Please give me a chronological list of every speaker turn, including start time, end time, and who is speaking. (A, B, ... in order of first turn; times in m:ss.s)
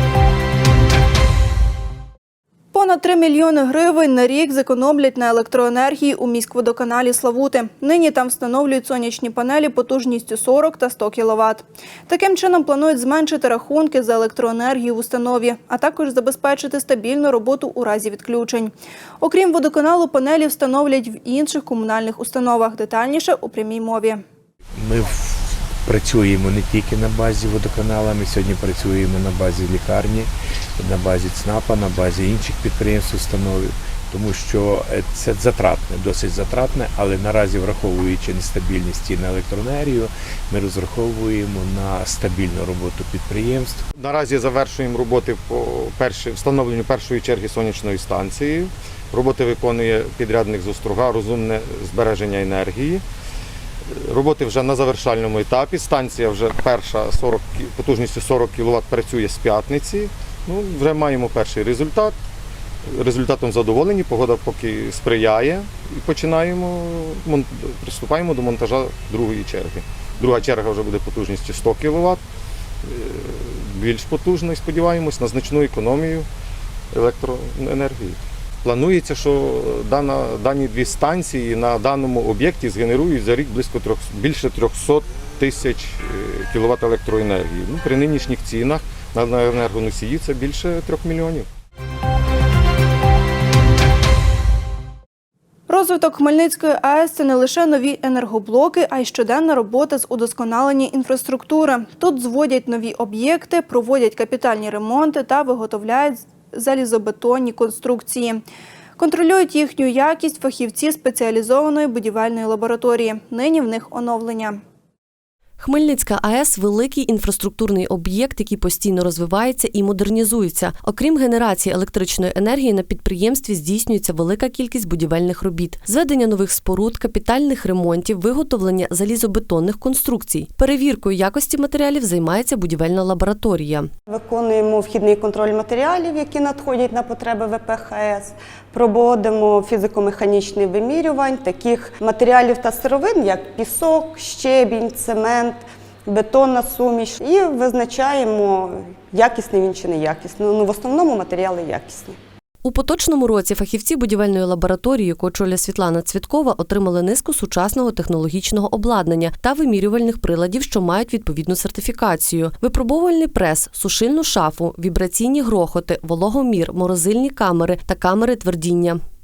0:02.7-0:24.2 A
0:24.8-0:25.1 B
0:25.9-0:30.3 B
0:30.8-0:43.8 B
0:43.9-0:53.0 C
0:54.0-1:02.2 C
1:02.9-1:12.2 C
1:12.8-1:16.3 C
1:16.9-1:31.5 C
1:35.7-1:48.4 A
1:49.0-1:54.6 A
1:55.6-2:13.9 D
2:14.1-2:32.2 E
2:32.6-2:49.0 D